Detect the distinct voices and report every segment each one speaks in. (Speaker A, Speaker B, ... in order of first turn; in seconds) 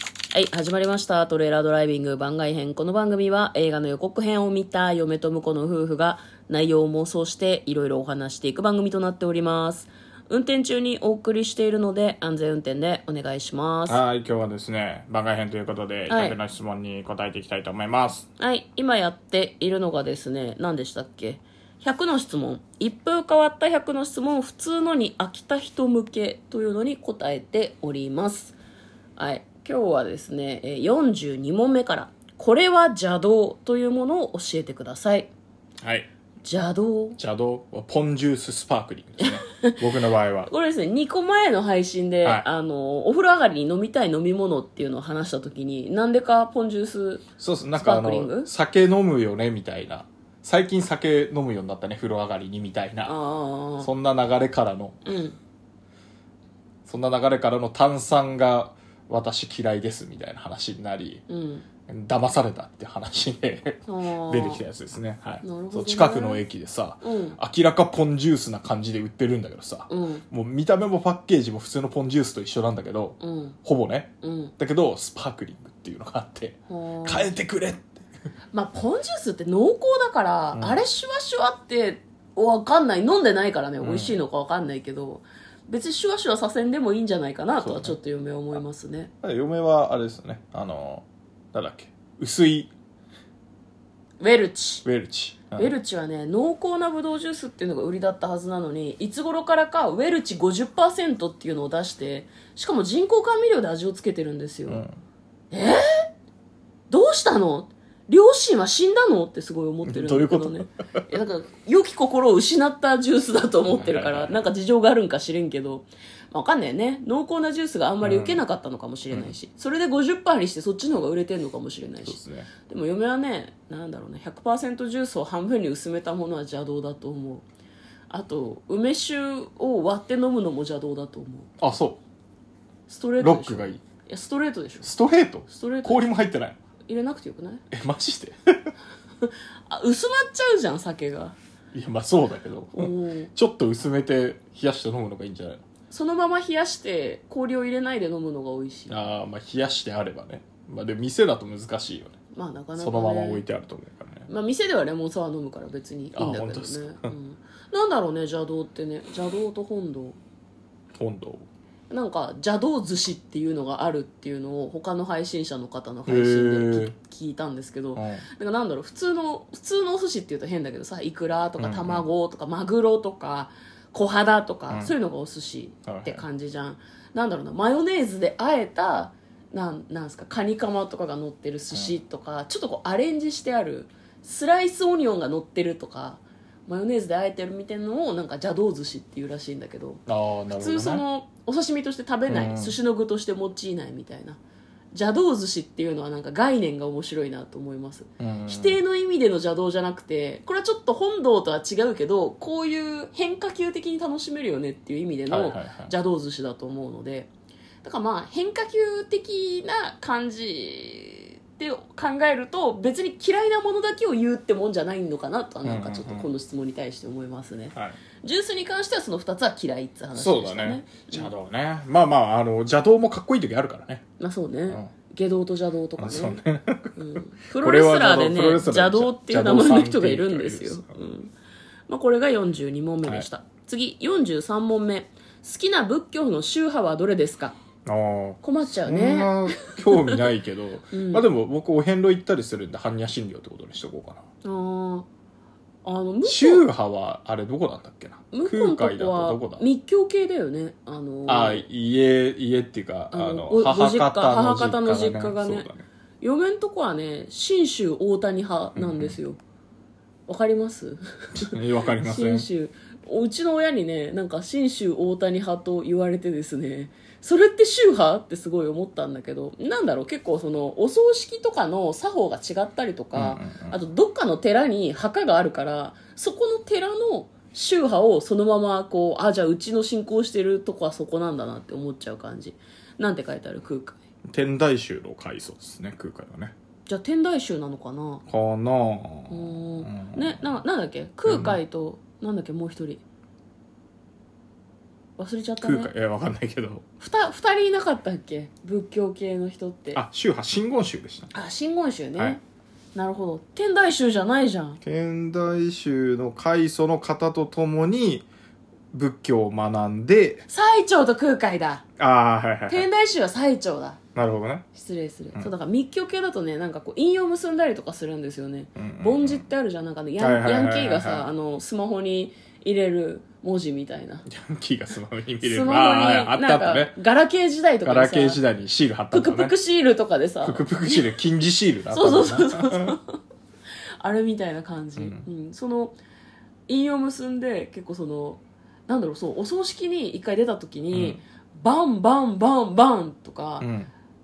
Speaker A: 0.3-14.0, 16.1-16.4, 18.4-28.6, 29.2-35.3, 36.4-37.2, 39.2-39.8, 40.5-48.5, 53.1-53.9, 55.0-55.4, 61.3-61.7, 63.9-64.6, 65.4-66.5, 67.0-67.4, 69.9-70.2, 73.2-73.6, 74.2-74.5, 76.7-77.3, 78.5-89.1, 94.2-94.8, 95.6-104.8, 105.5-106.0, 106.9-127.4, 128.1-131.5, 132.9-134.9, 135.5-136.1, 136.9-137.7, 139.2-141.4, 142.7-143.3, 145.9-149.1, 152.3-153.4, 154.3-160.2, 161.9-194.4, 194.9-207.3, 207.8-221.3, 224.2-226.4, 226.9-231.3, 231.9-237.6, 238.4-240.2, 240.9-241.3, 244.4-245.1, 245.8-246.7, 248.3-251.7, 253.1-255.7, 256.2-259.4, 260.3-284.0, 286.9-288.2, 289.3-293.0, 295.2-295.9, 297.0-300.0, 301.3-302.4, 302.9-304.8, 310.5-311.8, 312.7-314.0, 314.7-324.3, 325.4-328.4, 329.1-331.1, 331.9-333.2, 334.0-336.0, 336.7-343.7
Speaker B: 13.9-18.3, 35.8-36.1, 37.2-40.5, 47.4-53.1, 53.8-55.0, 56.9-61.2, 61.9-78.0, 80.5-80.8, 83.8-84.2, 87.6-88.0, 89.2-92.7, 94.8-95.7, 104.7-105.0, 109.8-111.0, 113.7-114.4, 118.0-118.4, 122.0-122.5, 131.6-132.0, 133.2-133.8, 134.8-136.6, 137.7-138.7, 141.7-145.6, 148.9-152.2, 152.8-154.3, 156.2-157.2, 160.9-161.5, 166.1-166.9, 167.9-168.2, 171.6-172.0, 175.9-176.2, 190.1-191.1, 192.3-192.8, 198.2-198.8, 205.3-205.9, 215.6-216.3, 220.2-224.1, 226.0-227.0, 227.6-231.1, 237.9-244.2, 246.2-249.6, 251.3-255.8, 258.8-259.2, 261.4-262.5, 273.1-273.8, 284.3-286.5, 288.3-290.6, 291.3-291.6, 295.6-296.8, 299.9-301.3, 304.8-308.3, 308.9-310.4, 312.0-312.9, 314.1-314.7, 318.8-319.4, 320.2-321.3, 324.3-327.0, 327.8-329.6, 330.4-333.0, 335.0-335.3, 340.9-341.2, 343.6-343.9